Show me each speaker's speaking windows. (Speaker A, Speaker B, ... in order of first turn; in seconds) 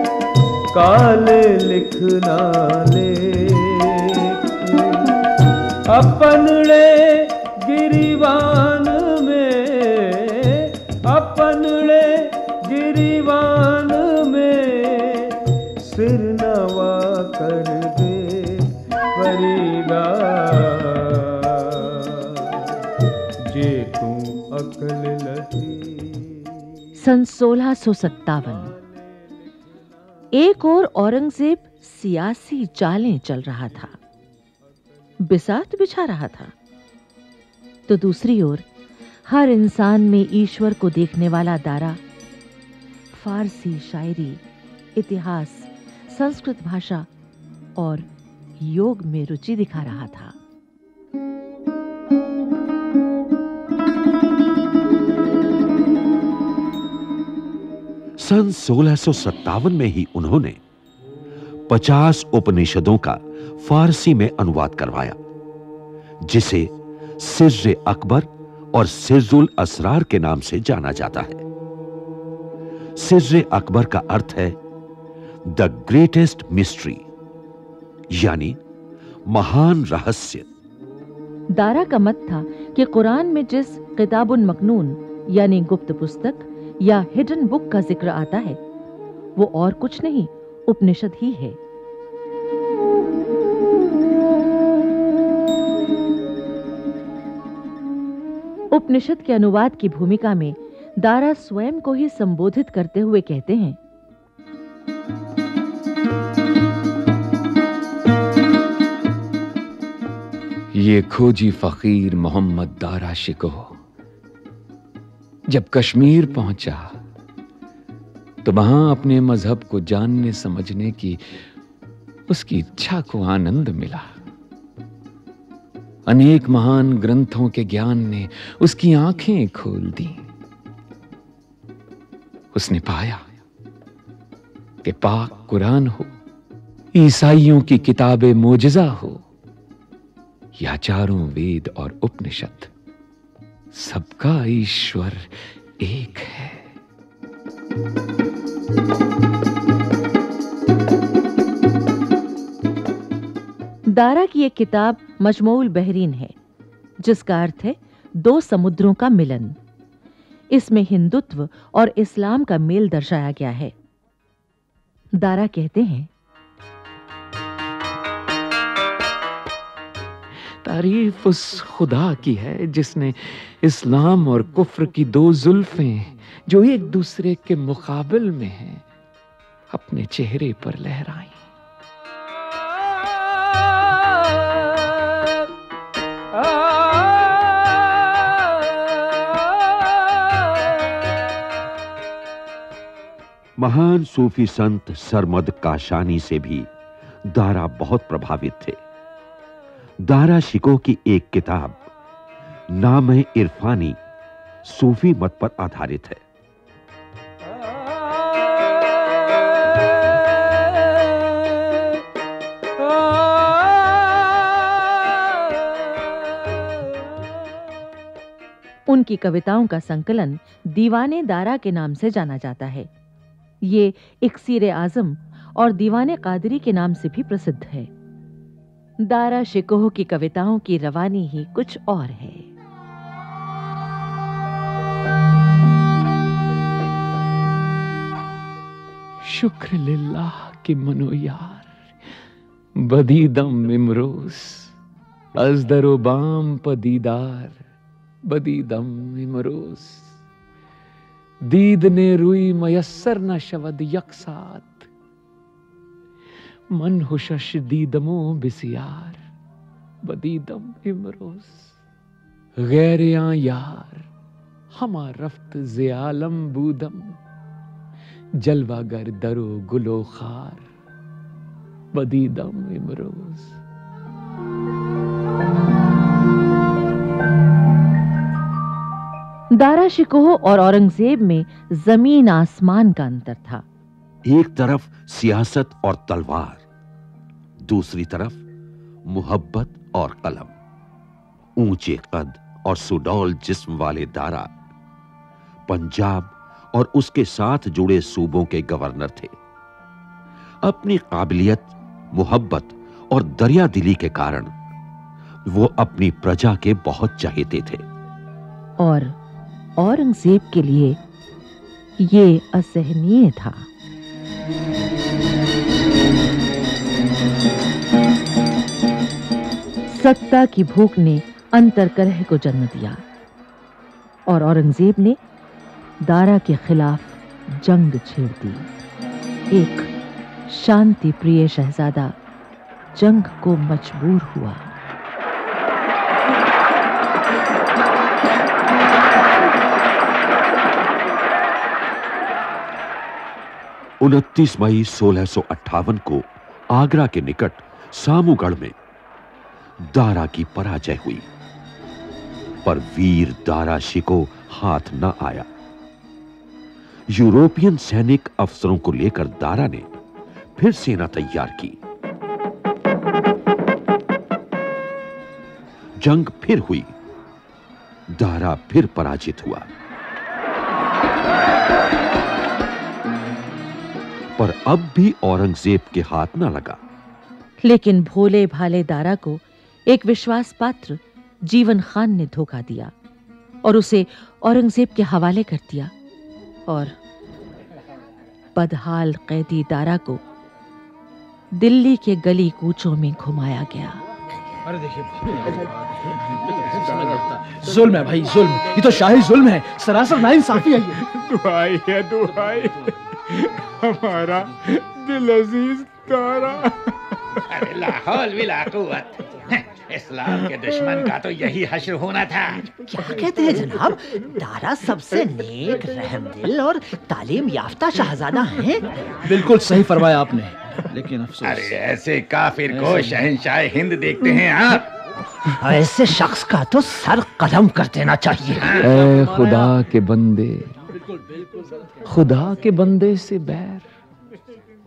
Speaker A: 0.7-5.1, 5.9-22.2, 23.5-26.5
Speaker B: 27.0-28.8, 30.3-34.0, 35.2-36.5, 37.9-38.7, 39.3-42.0, 43.1-44.4, 45.0-47.1, 47.8-48.1, 48.6-50.4, 81.5-88.6, 89.4-91.6, 98.7-103.8, 153.9-156.3, 157.0-159.6, 160.5-163.7, 165.1-166.1, 218.9-222.9, 223.6-227.9, 229.0-232.5, 279.5-283.6, 308.8-309.1, 309.8-311.0, 312.0-313.7, 319.9-323.0, 324.3-325.2, 326.0-328.7, 329.5-329.9, 330.5-332.1, 332.9-334.7, 377.6-382.9, 383.6-385.9, 386.7-386.9, 388.6-390.2, 391.6-394.0
Speaker C: 58.2-60.6, 61.7-65.2, 66.3-66.7, 67.2-71.4, 73.0-74.5, 75.5-77.0, 78.2-78.6, 79.3-80.5, 193.6-196.7, 197.3-198.8, 200.1-201.8, 202.7-204.0, 204.7-206.2, 284.3-286.6, 287.7-288.4, 289.1-290.5, 291.6-294.5, 295.7-299.3, 300.6-304.5, 305.5-307.8, 344.0-348.7, 349.9-351.2, 352.6-355.5, 357.1-359.8, 360.6-361.8, 366.0-366.9, 368.2-369.7, 374.4-376.8
Speaker D: 110.7-113.8, 115.5-117.0, 118.4-121.4, 122.3-124.2, 126.1-130.3, 132.5-133.3, 134.8-136.2, 136.9-139.2, 140.6-142.7, 143.7-146.7, 170.6-178.8, 179.7-181.4, 239.2-241.7, 242.8-244.8, 245.4-247.6, 248.3-250.2, 251.4-254.9, 256.7-259.2, 260.0-261.8, 262.6-264.1, 264.7-267.2, 268.4-270.7, 271.9-273.6, 428.8-430.7, 432.1-433.9
Speaker E: 397.6-400.9, 419.3-421.5, 422.8-423.0
Speaker F: 401.0-406.8
Speaker G: 407.5-412.7, 421.4-424.9
Speaker H: 412.8-418.9, 425.6-428.9